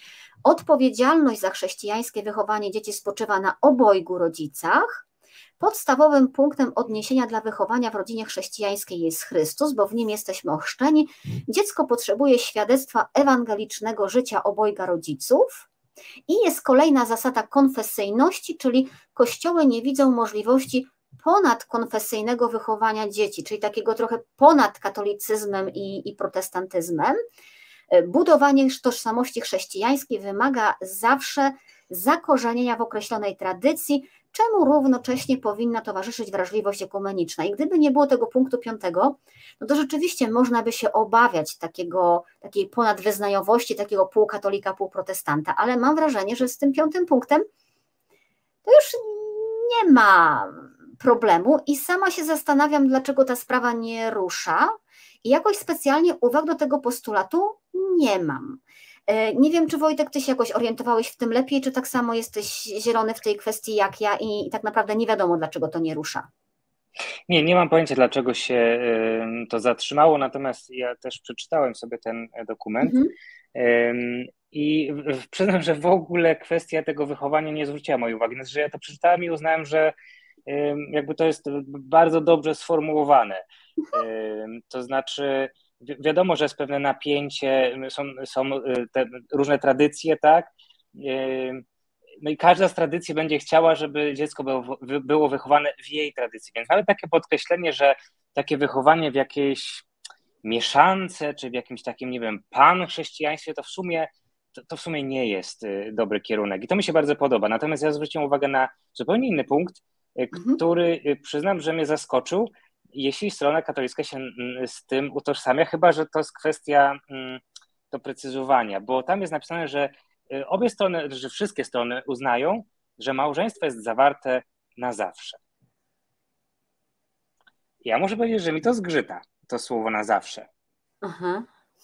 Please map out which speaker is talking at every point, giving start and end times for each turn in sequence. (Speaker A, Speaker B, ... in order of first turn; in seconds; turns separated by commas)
Speaker A: 0.4-5.0, Speaker A: 5.6-15.7, Speaker A: 16.3-27.2, Speaker A: 27.9-47.4, Speaker A: 48.6-66.3, Speaker B: 67.3-73.0, Speaker A: 72.8-73.1, Speaker B: 73.5-79.9, Speaker B: 80.5-83.4, Speaker B: 83.9-91.6, Speaker B: 92.2-99.8, Speaker B: 100.4-125.4, Speaker A: 110.3-110.6, Speaker B: 127.8-130.5, Speaker A: 131.0-131.5